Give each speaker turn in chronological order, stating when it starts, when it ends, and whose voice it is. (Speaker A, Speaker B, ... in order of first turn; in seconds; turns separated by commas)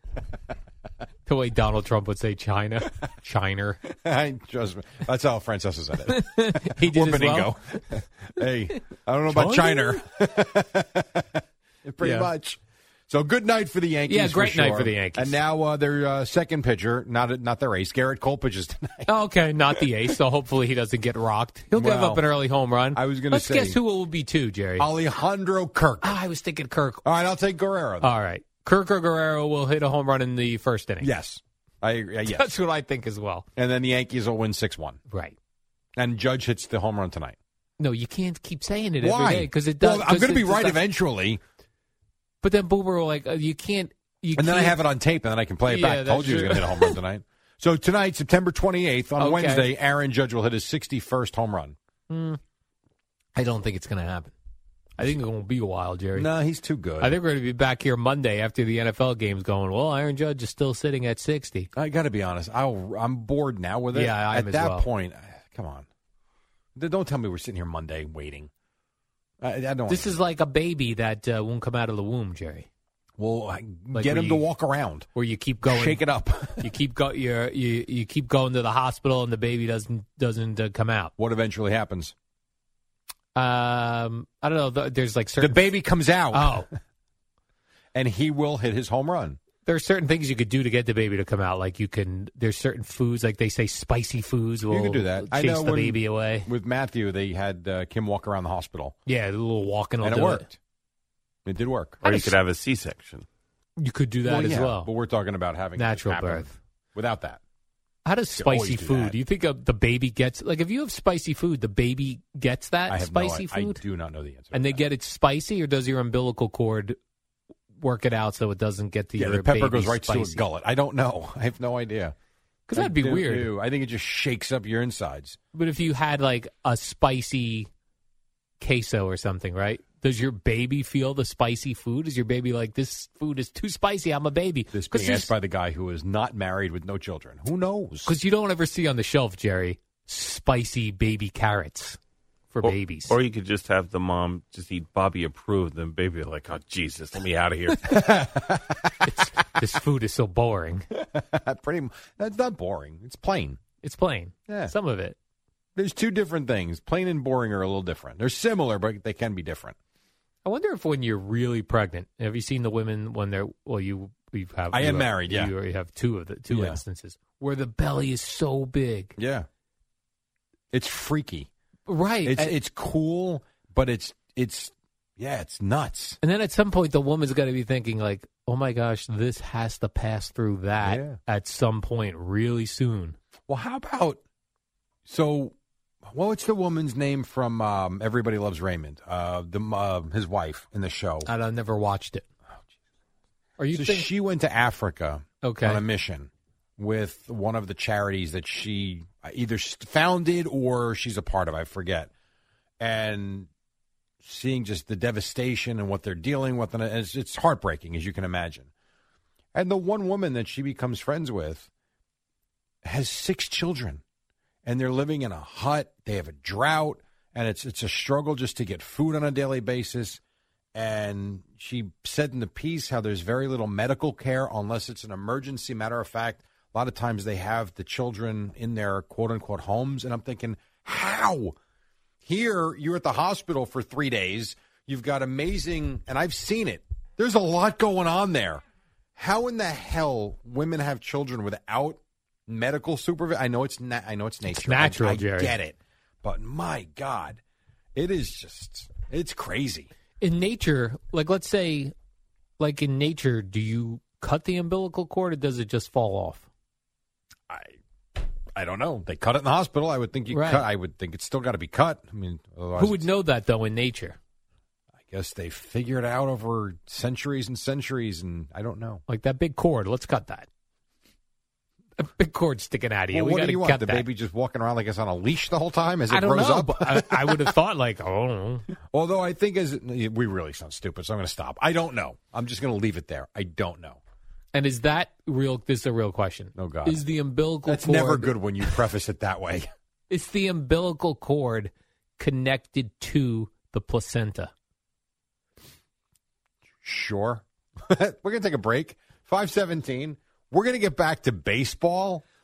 Speaker A: 1.3-3.8, Speaker B: 3.9-19.1, Speaker A: 6.1-7.5, Speaker A: 9.3-10.0, Speaker A: 12.0-12.3, Speaker A: 14.1-15.4, Speaker A: 19.1-24.9, Speaker B: 21.7-22.3, Speaker B: 22.9-23.8, Speaker B: 24.8-26.2, Speaker A: 26.0-27.0, Speaker B: 27.1-28.1, Speaker A: 28.0-31.1, Speaker B: 31.0-32.6, Speaker A: 32.3-33.5, Speaker B: 33.6-35.0, Speaker A: 35.1-35.4, Speaker B: 36.0-37.4, Speaker A: 37.8-40.8, Speaker B: 39.0-41.4, Speaker A: 42.4-44.8, Speaker B: 44.4-51.8, Speaker A: 45.6-47.0, Speaker A: 49.2-49.7, Speaker A: 52.1-52.4, Speaker A: 53.4-54.3, Speaker A: 55.0-56.3, Speaker B: 56.1-57.2, Speaker A: 57.0-61.7, Speaker B: 61.8-65.9, Speaker A: 63.9-64.9, Speaker B: 66.8-68.5, Speaker B: 69.4-70.2, Speaker A: 69.9-72.7, Speaker B: 73.2-75.1, Speaker A: 73.9-74.5, Speaker A: 75.2-76.0, Speaker B: 75.7-76.7, Speaker A: 76.6-81.1, Speaker B: 81.2-82.1, Speaker A: 83.3-85.6, Speaker B: 85.4-86.7, Speaker A: 86.3-86.7, Speaker B: 87.9-89.4, Speaker A: 89.7-96.5, Speaker B: 94.7-99.0, Speaker A: 99.1-100.5, Speaker B: 100.0-100.6, Speaker B: 101.5-102.0, Speaker C: 102.0-103.3, Speaker A: 103.8-104.9, Speaker B: 104.2-107.4, Speaker A: 105.8-106.6, Speaker A: 108.0-113.8, Speaker B: 108.3-109.2, Speaker B: 112.9-114.8, Speaker A: 114.5-117.0, Speaker A: 117.8-120.4, Speaker B: 119.2-122.1, Speaker A: 122.7-123.5, Speaker B: 122.8-125.4, Speaker A: 125.5-127.7, Speaker A: 128.6-135.3, Speaker B: 134.7-138.2, Speaker A: 138.1-142.0, Speaker A: 142.5-143.1, Speaker C: 142.6-147.9, Speaker B: 147.9-148.8, Speaker A: 149.1-150.8, Speaker B: 150.9-153.6, Speaker A: 153.8-155.2, Speaker B: 154.5-154.7, Speaker B: 155.8-159.8, Speaker A: 160.4-169.2, Speaker B: 164.7-165.5, Speaker B: 166.5-166.8, Speaker B: 169.2-169.5, Speaker B: 170.7-171.5, Speaker A: 171.9-172.6, Speaker B: 172.2-176.2, Speaker A: 176.2-183.2, Speaker B: 180.8-181.2, Speaker B: 183.5-184.2, Speaker B: 185.1-185.6, Speaker B: 186.1-191.3, Speaker A: 191.3-192.2, Speaker A: 193.6-194.1, Speaker B: 193.7-202.1, Speaker A: 195.4-195.8, Speaker B: 202.8-203.5, Speaker B: 204.2-208.7, Speaker B: 209.5-211.7, Speaker B: 212.8-214.0, Speaker B: 214.7-220.2, Speaker B: 220.8-231.6, Speaker B: 232.2-238.6, Speaker B: 239.2-247.4, Speaker A: 244.5-245.6, Speaker B: 247.9-249.9, Speaker A: 250.2-251.9, Speaker A: 252.6-256.5, Speaker B: 257.5-257.8, Speaker B: 258.6-263.1, Speaker A: 260.3-260.7, Speaker A: 262.8-264.2, Speaker B: 265.1-269.0, Speaker A: 269.1-270.5, Speaker A: 272.0-274.1, Speaker B: 273.1-277.5, Speaker A: 276.1-278.7, Speaker B: 278.9-284.0, Speaker A: 284.5-288.3, Speaker B: 286.6-287.1, Speaker B: 287.7-289.7, Speaker A: 290.1-294.5, Speaker B: 296.8-302.2